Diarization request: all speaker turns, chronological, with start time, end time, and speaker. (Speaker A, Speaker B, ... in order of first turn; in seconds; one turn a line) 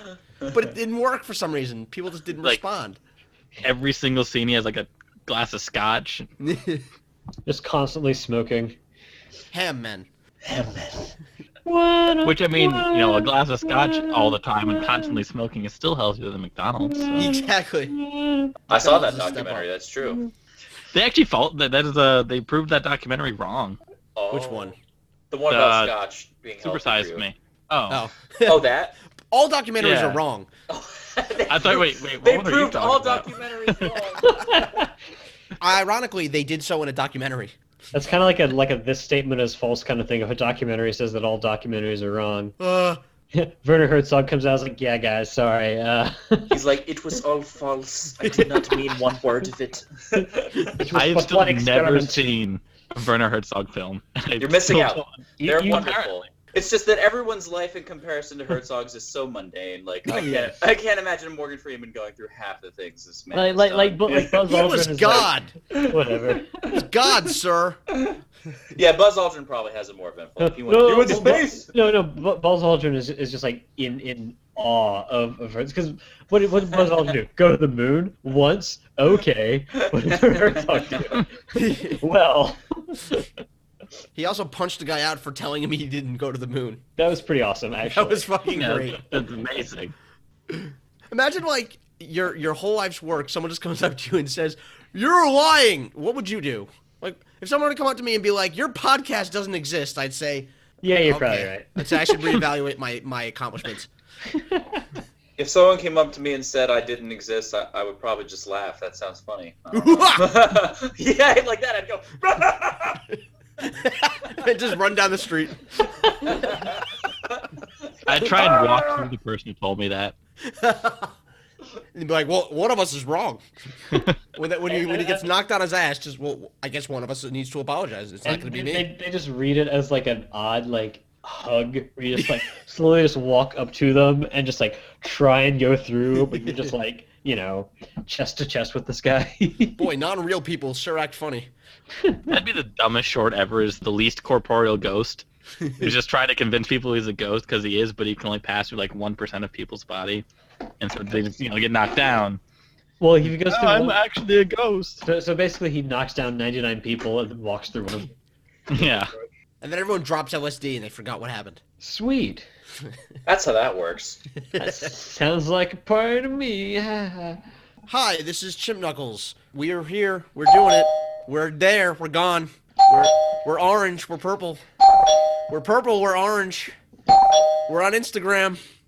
Speaker A: 0.5-3.0
Speaker B: 3.6-6.3
Speaker A: 6.4-6.8
Speaker C: 7.5-8.8
Speaker A: 9.5-10.1
Speaker D: 10.5-11.1
Speaker C: 11.7-15.2
Speaker B: 12.2-17.3
Speaker C: 16.8-18.6
Speaker A: 17.1-17.9
Speaker A: 18.7-19.7
Speaker D: 18.7-20.2
Speaker B: 20.9-23.8
Speaker D: 24.1-24.8
Speaker A: 24.3-24.8
Speaker D: 25.3-27.2
Speaker B: 25.5-25.9
Speaker B: 26.6-28.0
Speaker A: 27.9-28.6
Speaker D: 28.4-28.9
Speaker A: 29.3-30.5
Speaker B: 29.8-30.2
Speaker D: 30.7-34.7
Speaker B: 31.5-33.9
Speaker C: 34.2-34.9
Speaker A: 35.6-37.5
Speaker C: 37.9-42.5
Speaker A: 42.6-43.0
Speaker C: 43.3-46.7
Speaker D: 46.5-50.7
Speaker A: 48.2-48.6
Speaker C: 50.6-52.3
Speaker B: 50.9-56.2
Speaker D: 54.4-64.3
Speaker C: 55.4-55.9
Speaker C: 60.1-60.6
Speaker C: 63.3-66.7
Speaker A: 64.1-65.5
Speaker A: 66.7-67.8
Speaker D: 68.7-71.7
Speaker C: 70.4-83.3
Speaker D: 80.8-81.2
Speaker A: 81.5-82.0
Speaker A: 84.2-86.8
Speaker C: 87.0-88.3
Speaker A: 87.9-89.0
Speaker B: 88.5-90.0
Speaker A: 90.5-100.5
Speaker C: 100.8-102.3
Speaker A: 101.0-103.9
Speaker C: 104.3-104.8
Speaker D: 105.4-113.0
Speaker A: 109.7-110.5
Speaker A: 113.6-115.7
Speaker D: 116.2-116.8
Speaker B: 118.1-120.1
Speaker D: 118.1-119.1
Speaker A: 120.4-121.1
Speaker A: 121.9-123.4
Speaker B: 123.9-124.2
Speaker A: 124.0-128.9
Speaker C: 124.7-125.3
Speaker C: 128.2-139.9
Speaker A: 136.2-136.7
Speaker A: 139.8-141.5
Speaker C: 142.0-142.4
Speaker B: 142.3-145.3
Speaker A: 145.6-145.9
Speaker B: 145.8-150.2
Speaker B: 150.8-152.4
Speaker C: 153.0-154.0
Speaker B: 153.2-155.0
Speaker C: 155.0-158.1
Speaker B: 158.7-159.1
Speaker A: 159.6-161.6
Speaker C: 161.8-162.4
Speaker D: 163.2-164.2
Speaker A: 164.5-164.9
Speaker C: 164.6-167.4
Speaker A: 167.9-174.6
Speaker A: 175.5-176.8
Speaker A: 177.7-178.6